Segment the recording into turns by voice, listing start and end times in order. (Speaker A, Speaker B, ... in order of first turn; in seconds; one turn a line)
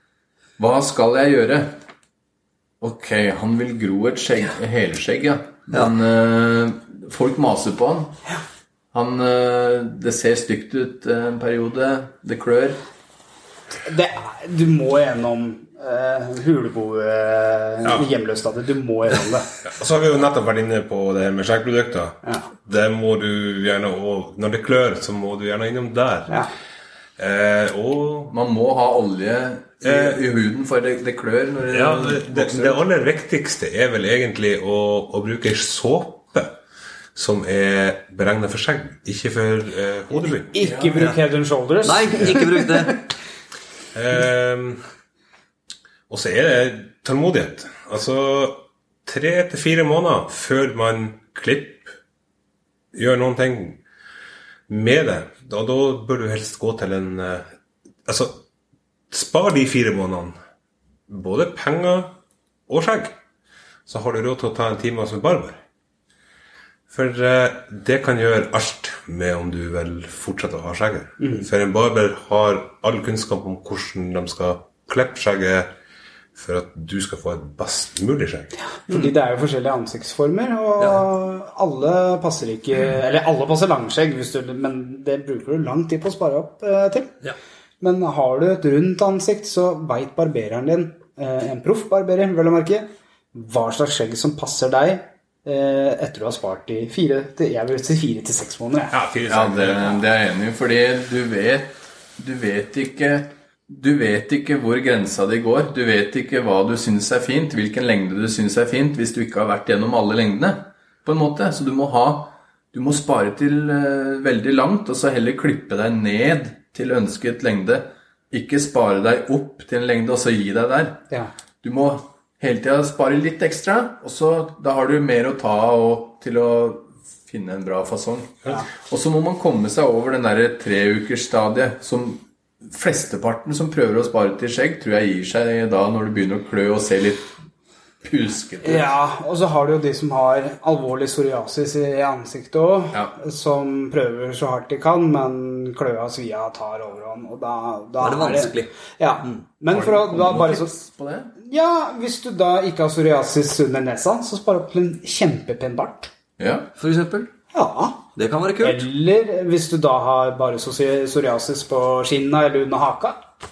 Speaker A: 0.6-1.8
Speaker A: 2.8-8.2
Speaker A: 8.9-12.8
Speaker B: 13.9-19.5
Speaker C: 19.6-26.3
Speaker C: 27.2-28.3
Speaker A: 28.3-32.8
Speaker C: 29.8-30.2
Speaker C: 31.7-36.6
Speaker C: 37.1-40.5
Speaker B: 40.2-42.9
Speaker A: 40.6-41.1
Speaker D: 41.8-43.0
Speaker C: 43.9-44.8
Speaker C: 46.1-51.9
Speaker C: 52.9-53.8
Speaker C: 54.7-57.5
Speaker C: 58.0-58.4
Speaker C: 59.1-60.4
Speaker C: 61.1-62.2
Speaker C: 62.7-63.2
Speaker C: 63.9-65.6
Speaker C: 66.9-75.7
Speaker B: 71.2-71.5
Speaker C: 76.3-78.5
Speaker B: 78.7-87.2
Speaker B: 87.8-98.9
Speaker C: 98.9-100.0
Speaker A: 99.3-121.1
Speaker A: 121.6-137.3
Speaker A: 138.0-138.9
Speaker B: 138.6-150.7
Speaker D: 148.0-148.7
Speaker A: 149.7-151.3
Speaker B: 151.4-156.1
Speaker A: 156.4-156.7
Speaker D: 156.8-157.3
Speaker B: 157.5-158.0
Speaker D: 158.2-158.8
Speaker B: 158.6-163.2